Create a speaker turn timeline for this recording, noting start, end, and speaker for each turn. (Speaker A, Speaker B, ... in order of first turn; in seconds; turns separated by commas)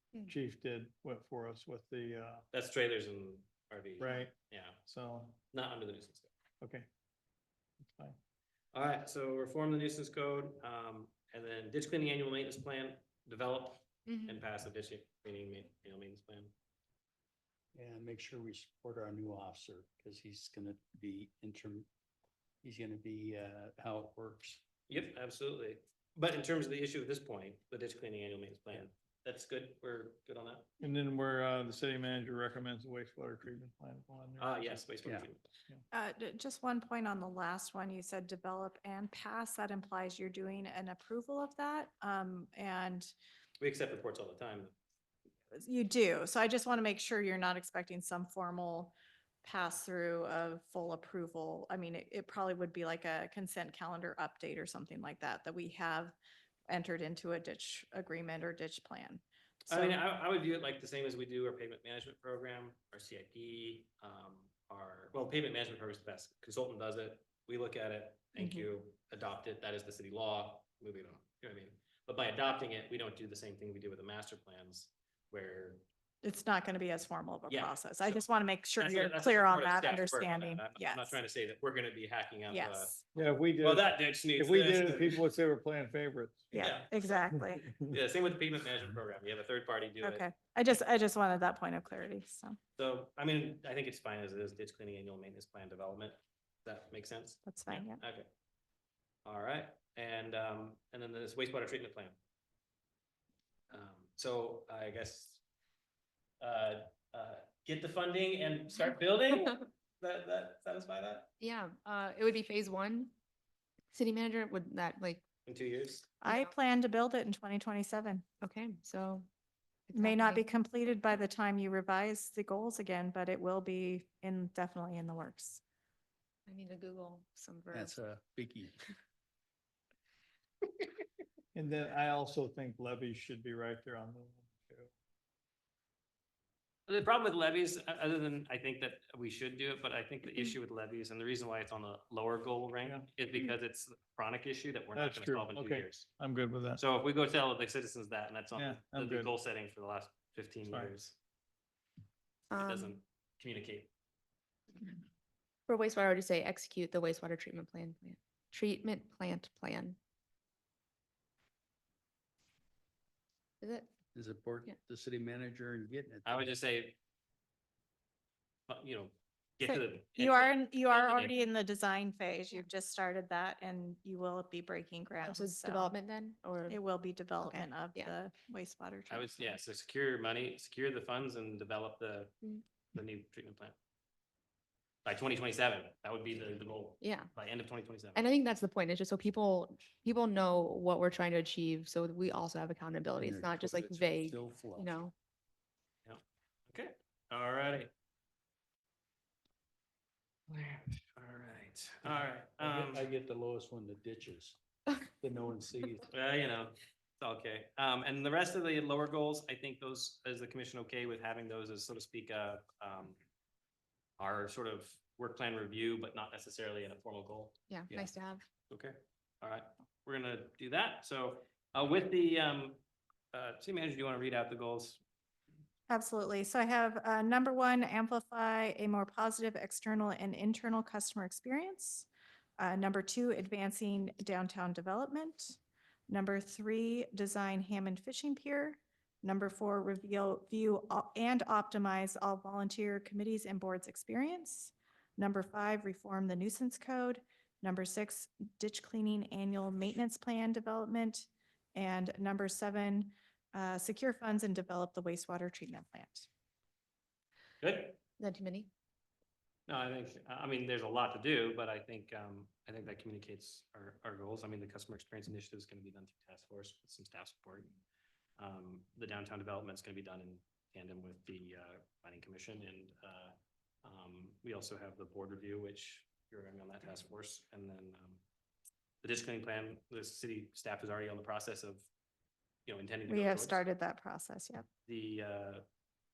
Speaker A: 0.2-2.4, Speaker B: 2.5-4.8, Speaker A: 4.0-5.4, Speaker B: 5.5-6.3, Speaker A: 6.6-6.9, Speaker A: 7.9-8.2, Speaker B: 8.7-16.5, Speaker C: 14.1-14.4, Speaker D: 17.7-21.9, Speaker D: 22.6-24.6, Speaker B: 24.9-30.7, Speaker A: 30.8-34.8, Speaker B: 34.4-35.4, Speaker E: 35.9-43.1, Speaker B: 43.6-44.7, Speaker E: 45.5-56.1, Speaker E: 56.7-60.0, Speaker B: 59.7-75.8, Speaker C: 68.4-68.6, Speaker E: 76.2-81.2, Speaker B: 77.5-78.2, Speaker B: 78.8-83.0, Speaker E: 82.5-83.0, Speaker A: 83.1-86.5, Speaker B: 83.6-85.2, Speaker E: 86.5-87.7, Speaker B: 86.5-86.9, Speaker A: 87.3-88.0, Speaker B: 87.9-90.2, Speaker E: 90.0-92.6, Speaker B: 92.8-98.3, Speaker E: 97.5-98.0, Speaker B: 99.2-102.1, Speaker B: 103.7-105.4, Speaker B: 106.4-111.3, Speaker C: 111.4-113.1, Speaker C: 113.9-115.2, Speaker B: 115.5-116.1, Speaker E: 116.2-118.2, Speaker C: 118.4-119.3, Speaker C: 119.9-120.4, Speaker E: 119.9-125.6, Speaker C: 126.5-128.0, Speaker D: 127.7-128.8, Speaker A: 131.5-134.9, Speaker B: 136.9-146.1, Speaker A: 144.9-146.8, Speaker B: 146.8-151.1, Speaker A: 148.5-149.3, Speaker A: 150.7-150.9, Speaker C: 152.5-152.9, Speaker B: 152.6-153.9, Speaker C: 155.7-160.0, Speaker C: 163.6-163.9, Speaker D: 164.1-166.6, Speaker B: 166.2-167.0, Speaker B: 168.7-170.4, Speaker E: 170.2-175.9, Speaker C: 175.2-176.8, Speaker E: 176.7-179.3, Speaker C: 177.4-178.1, Speaker B: 179.1-182.3, Speaker B: 182.9-183.7, Speaker B: 185.0-188.2, Speaker C: 187.0-187.3, Speaker C: 188.1-195.1, Speaker D: 193.2-194.9, Speaker B: 196.1-197.9, Speaker B: 200.5-203.1, Speaker D: 202.1-204.6, Speaker D: 205.2-206.1, Speaker B: 206.1-213.2, Speaker B: 214.2-217.6, Speaker C: 217.7-218.4, Speaker B: 218.7-222.8, Speaker B: 223.3-225.0, Speaker E: 225.9-235.6, Speaker E: 236.1-256.3, Speaker B: 257.6-258.0, Speaker C: 258.2-258.7, Speaker B: 259.7-267.7, Speaker B: 268.4-278.2, Speaker B: 279.0-281.9, Speaker B: 282.6-283.6, Speaker E: 283.1-284.6, Speaker B: 284.9-285.6